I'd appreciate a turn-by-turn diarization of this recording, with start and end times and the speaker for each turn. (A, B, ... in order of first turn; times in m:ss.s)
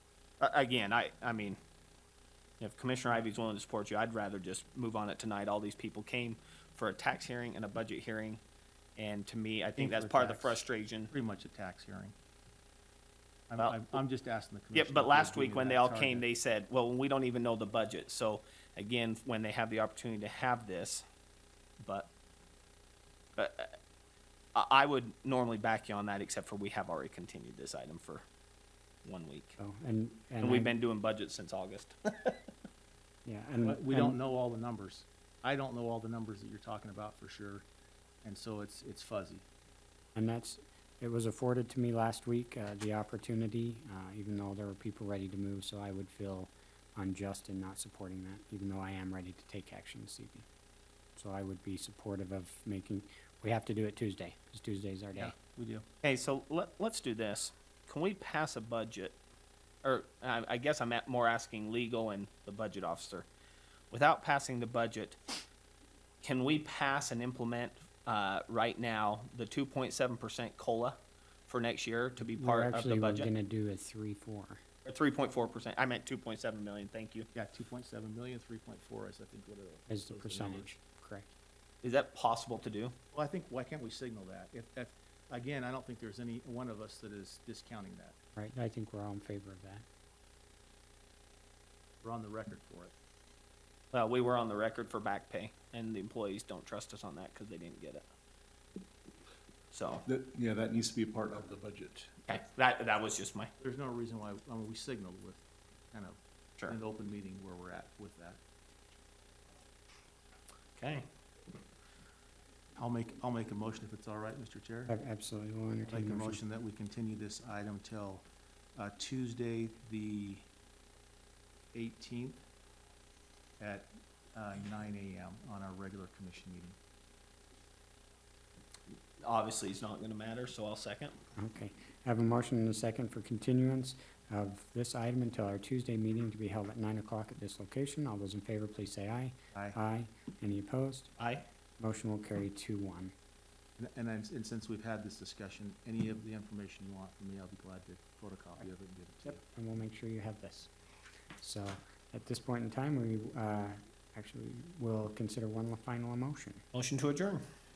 0:00.4-0:01.6 A
0:02.6-0:08.4 A
0:09.0-0:11.1 A
0:09.8-0:12.1 B
0:13.5-0:16.2 B
0:14.7-0:21.0 A
0:21.8-0:22.1 A
0:23.4-0:23.7 A
0:24.5-0:28.2 A
0:29.0-0:29.6 A
0:29.6-0:30.7 C
0:30.4-0:32.4 A
0:33.2-0:34.2 C
0:33.6-0:37.6 B
0:38.2-0:39.4 B
0:40.1-0:50.5 C
0:51.2-0:55.3 C
0:55.2-0:55.8 B
0:56.0-0:59.2 A
0:59.8-1:03.3 A
1:03.9-1:05.2 A
1:06.2-1:11.0 A
1:11.5-1:13.3 A
1:12.2-1:14.6 C
1:14.8-1:17.3 A
1:17.3-1:20.7 B
1:19.9-1:21.3 C
1:21.8-1:22.9 A
1:23.1-1:28.2 B
1:28.4-1:29.8 C
1:32.0-1:32.9 B
1:33.9-1:38.0 A
1:39.7-1:40.0 A
1:40.0-1:42.2 D
1:42.3-1:43.5 A
1:43.6-1:48.4 B
1:50.8-1:51.0 A
1:52.8-1:54.9 B
1:54.9-1:56.4 C
1:55.9-1:58.2 B
1:58.8-2:00.5 B
2:01.7-2:02.4 B
2:03.6-2:06.8 B
2:09.2-2:11.2 A
2:11.4-2:21.1 C
2:19.5-2:19.8 B
2:21.2-2:21.4 A
2:21.8-2:23.1 C
2:23.8-2:29.4 B
2:29.2-2:30.7 C
2:31.4-2:36.6 C
2:36.7-2:37.4 A